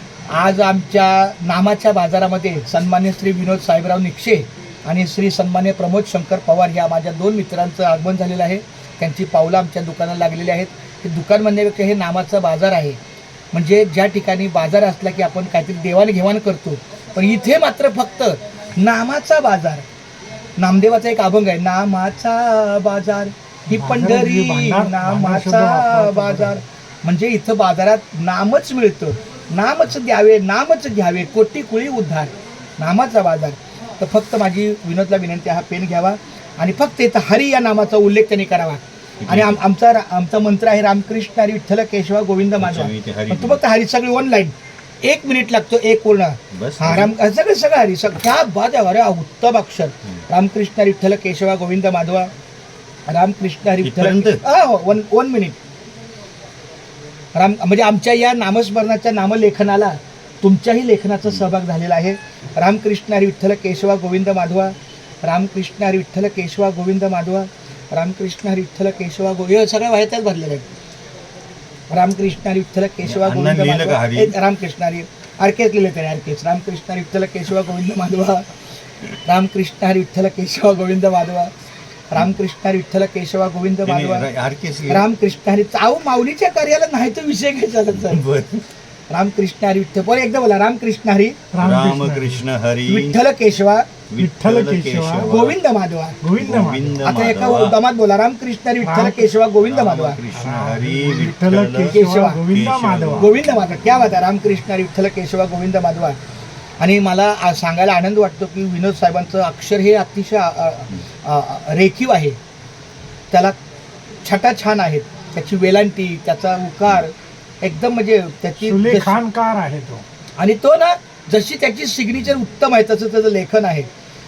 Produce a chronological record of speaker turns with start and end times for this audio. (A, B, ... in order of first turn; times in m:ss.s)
0:00.3-0:13.0 A
0:13.5-0:19.8 A
0:20.6-0:52.3 A
0:23.7-0:26.6 B
0:39.2-0:39.6 C
0:42.6-0:43.6 C
0:46.5-0:47.1 C
0:53.1-0:55.6 A
0:53.8-0:54.4 C
0:57.3-1:10.6 A
1:11.9-1:18.5 A
1:13.0-1:14.3 C
1:19.2-1:21.5 A
1:22.1-1:24.3 A
1:23.8-1:25.0 C
1:24.9-1:28.2 A
1:27.9-1:28.6 C
1:29.1-1:31.4 A
1:31.5-1:32.4 B
1:31.6-1:33.2 C
1:32.8-1:33.9 A
1:34.1-1:35.6 C
1:34.2-1:35.3 B
1:35.2-1:36.2 A
1:36.2-1:37.0 B
1:36.4-1:37.8 C
1:37.0-1:40.2 A
1:38.8-1:39.3 B
1:39.6-1:44.2 C
1:40.3-1:43.3 B
1:41.9-1:42.4 A
1:43.1-1:46.2 A
1:46.8-1:52.4 A
1:53.3-1:53.6 A
1:54.2-1:59.2 A
1:58.6-2:00.0 B
2:00.4-2:03.9 A